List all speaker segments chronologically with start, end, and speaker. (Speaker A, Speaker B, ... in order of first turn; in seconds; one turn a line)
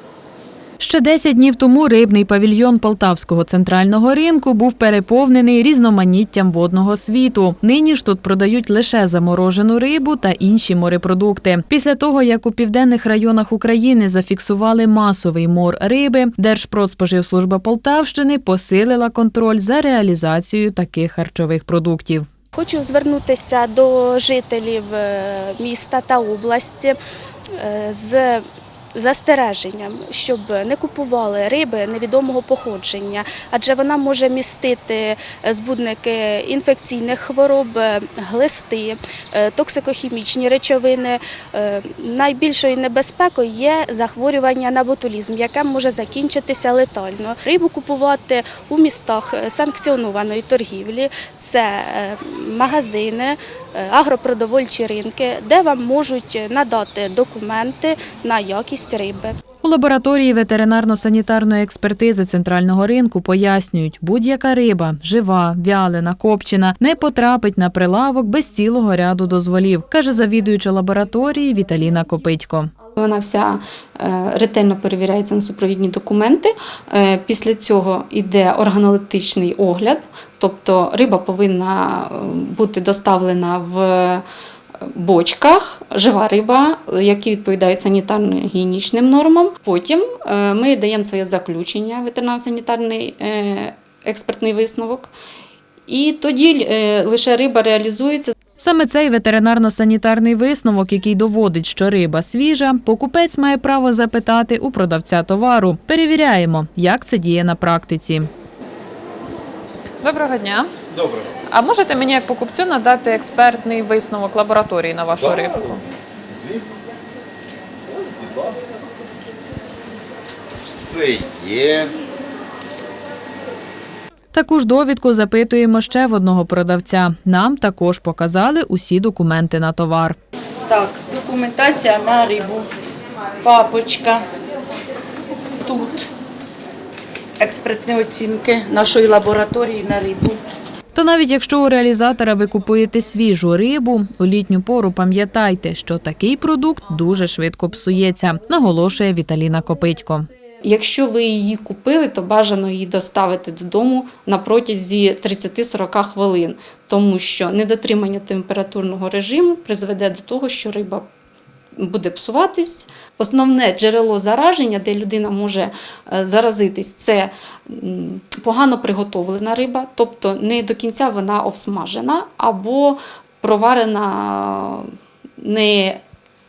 Speaker A: 0.8-22.3
Speaker B: 22.5-27.0
Speaker B: 27.5-28.4
Speaker B: 28.9-59.4
Speaker A: 59.6-72.7
Speaker C: 73.0-84.2
Speaker C: 84.8-95.1
Speaker C: 95.9-98.4
Speaker A: 98.6-108.3
Speaker A: 110.0-110.7
Speaker D: 110.9-111.3
Speaker A: 111.5-115.8
Speaker D: 116.4-116.7
Speaker D: 118.2-118.6
Speaker D: 120.7-121.9
Speaker A: 124.3-130.2
Speaker E: 130.7-132.7
Speaker E: 133.4-134.3
Speaker E: 135.6-136.1
Speaker E: 137.4-140.4
Speaker A: 140.9-150.3
Speaker C: 150.6-161.1
Speaker C: 161.8-176.0